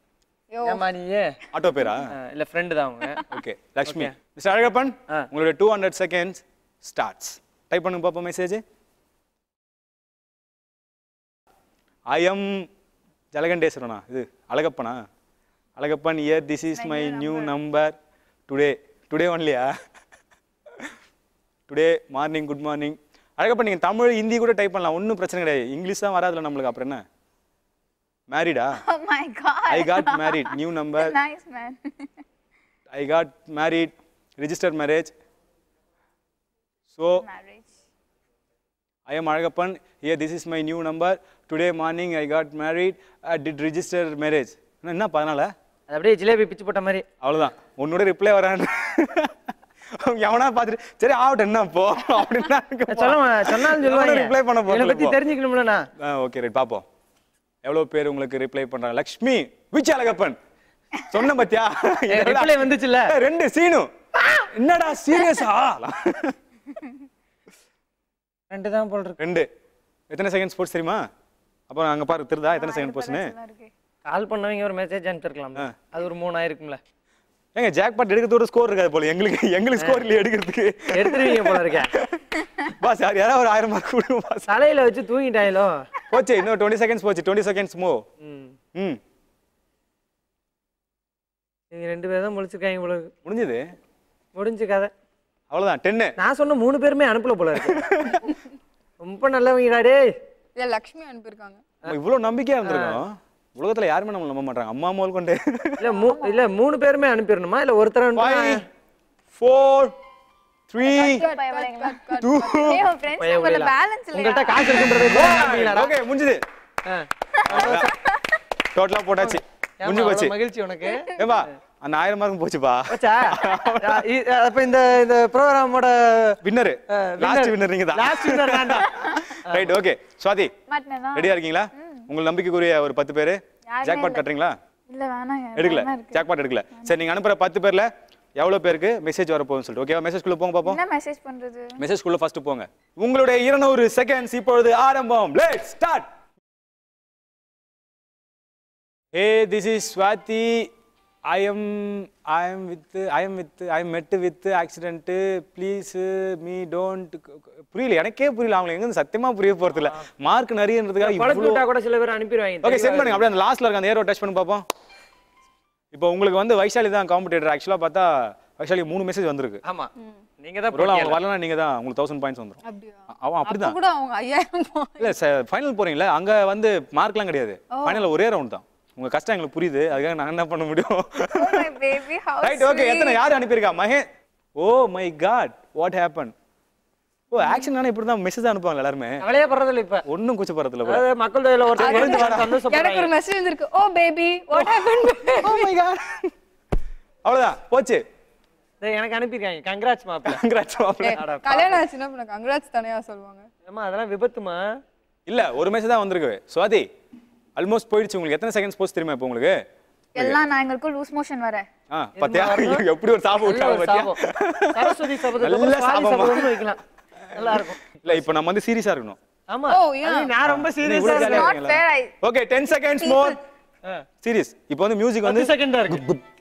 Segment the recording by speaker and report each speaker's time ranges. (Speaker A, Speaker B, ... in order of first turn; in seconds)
Speaker A: 0.5-0.9, 100.6-101.6, 110.9-112.3, 172.7-175.1, 177.7-178.1, 191.8-195.7, 201.0-203.5, 219.7-220.3
Speaker B: 0.7-1.4, 2.1-3.2, 3.9-4.2, 45.9-47.0, 52.9-55.8, 62.1-63.1, 68.5-69.2, 74.1-76.8, 79.8-80.1, 80.9-81.9, 84.5-85.8, 88.2-88.5, 91.7-93.1, 94.3-94.9, 96.2-97.9, 99.0-100.1, 102.7-103.0, 105.8-108.6, 113.2-115.9, 116.9-117.9, 119.2-121.5, 122.9-126.4, 127.0-128.9, 129.5-129.7, 161.0-163.2, 169.7-171.2, 189.2-190.0, 190.9-193.1, 194.6-194.9, 198.8-200.4, 201.1-201.8, 203.7-204.6, 212.2-212.8, 213.4-214.2, 214.7-216.8, 217.3-217.9, 219.5-221.5, 225.2-226.1
Speaker C: 1.5-2.1, 3.3-8.6, 12.1-12.7, 13.3-15.0, 15.8-18.0, 18.5-19.7, 21.7-27.0, 28.3-28.8, 29.7-31.1, 32.9-35.1, 36.9-37.2, 39.1-45.5, 47.2-49.3, 49.9-55.2, 56.0-56.9, 57.6-60.4, 61.1-63.9, 64.5-66.4, 69.2-69.5, 70.1-71.0, 71.7-73.3, 77.5-82.2, 82.8-84.5, 86.1-88.0, 93.2-93.7, 95.5-96.1, 97.7-98.2, 101.9-105.8, 108.2-108.6, 109.3-110.0, 110.7-111.3, 112.2-112.8, 114.8-116.4, 117.5-117.9, 118.7-120.3, 121.2-124.0, 126.4-130.5, 131.2-134.6, 135.6-140.8, 141.8-146.1, 149.1-150.7, 151.3-161.7, 162.6-164.6, 165.9-169.6, 170.7-172.6, 173.1-173.8, 175.0-181.7, 182.4-186.3, 187.3-189.2, 190.1-191.1, 191.8-192.6, 195.4-196.3, 197.2-198.0, 200.2-201.2, 205.3-206.9, 207.6-209.6, 211.9-216.7, 217.5-219.2, 220.5-223.4, 224.2-226.2
Speaker D: 16.7-17.6, 28.8-32.1, 37.2-37.7, 72.6-73.7, 105.9-106.4, 110.8-114.8, 130.7-132.1, 133.7-134.2, 134.9-137.0, 140.6-141.8, 181.3-183.2, 210.2-211.7, 221.1-222.1, 223.0-223.3